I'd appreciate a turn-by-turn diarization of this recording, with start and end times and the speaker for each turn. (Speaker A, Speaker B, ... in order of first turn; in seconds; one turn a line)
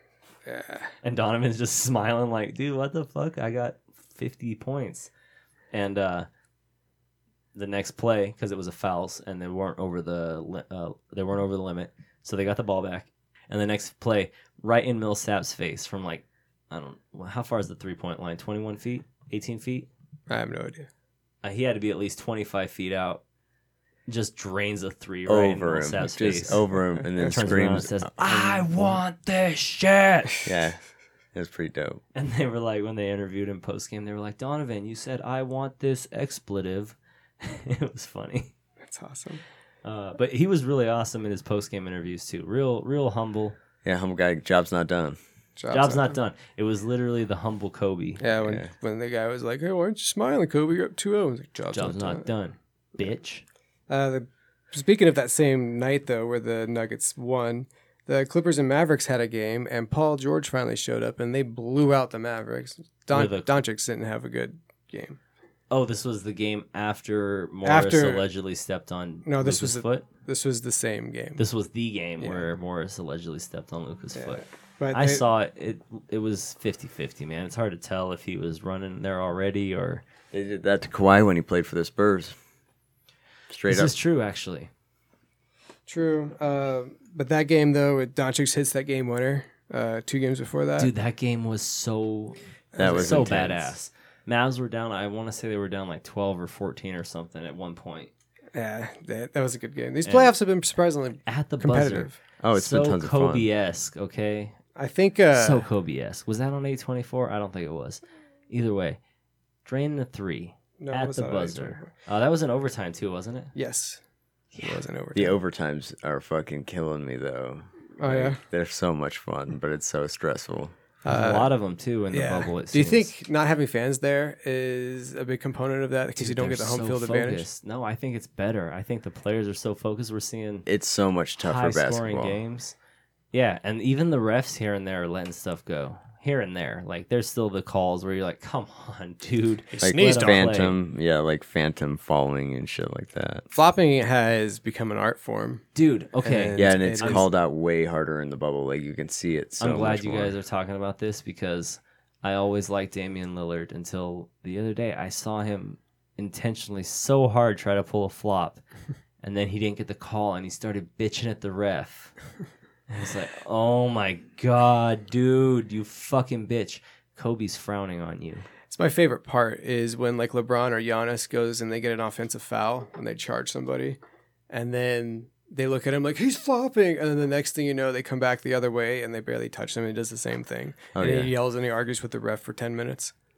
Speaker A: 0.5-0.9
Speaker B: 1.0-5.1
Speaker B: 5.7-6.3
Speaker B: 7.5-19.9
Speaker A: 20.3-20.9
Speaker B: 21.4-23.2
Speaker B: 24.1-26.6
Speaker C: 25.3-29.0
Speaker B: 27.2-30.4
Speaker C: 30.4-30.8
Speaker C: 31.3-32.0
Speaker B: 32.1-38.5
Speaker A: 38.8-39.4
Speaker B: 39.9-43.6
Speaker C: 43.8-45.2
Speaker A: 45.6-46.2
Speaker B: 45.7-48.2
Speaker A: 48.2-52.3
Speaker C: 48.4-48.7
Speaker B: 51.7-53.5
Speaker A: 53.9-65.2
Speaker B: 63.1-63.6
Speaker B: 65.7-70.1
Speaker A: 67.6-68.3
Speaker A: 69.3-71.5
Speaker B: 71.4-80.0
Speaker A: 72.2-72.5
Speaker A: 74.1-75.2
Speaker C: 80.3-82.4
Speaker C: 83.5-83.9
Speaker B: 83.7-84.7
Speaker A: 85.9-90.9
Speaker B: 90.8-98.1
Speaker A: 92.7-93.2
Speaker C: 92.8-93.7
Speaker A: 98.5-102.2
Speaker B: 100.0-100.3
Speaker B: 101.3-104.6
Speaker C: 102.4-103.5
Speaker A: 104.8-105.7
Speaker B: 105.3-109.0
Speaker B: 109.7-113.5
Speaker A: 110.8-111.9
Speaker A: 113.5-114.0
Speaker B: 114.5-114.8
Speaker A: 114.6-115.3
Speaker C: 115.1-120.8
Speaker A: 118.0-118.4
Speaker A: 121.0-121.5
Speaker B: 121.0-123.1
Speaker A: 122.1-127.5
Speaker B: 126.2-130.7
Speaker C: 130.7-132.4
Speaker B: 131.4-132.8
Speaker B: 133.3-140.8
Speaker A: 139.7-140.5
Speaker C: 139.8-143.5
Speaker A: 143.5-145.7
Speaker B: 145.8-147.3
Speaker A: 146.2-147.2
Speaker C: 146.6-150.3
Speaker B: 149.6-158.6
Speaker B: 159.2-162.1
Speaker B: 162.9-168.4
Speaker A: 168.7-174.0
Speaker A: 174.5-183.1
Speaker C: 180.9-181.3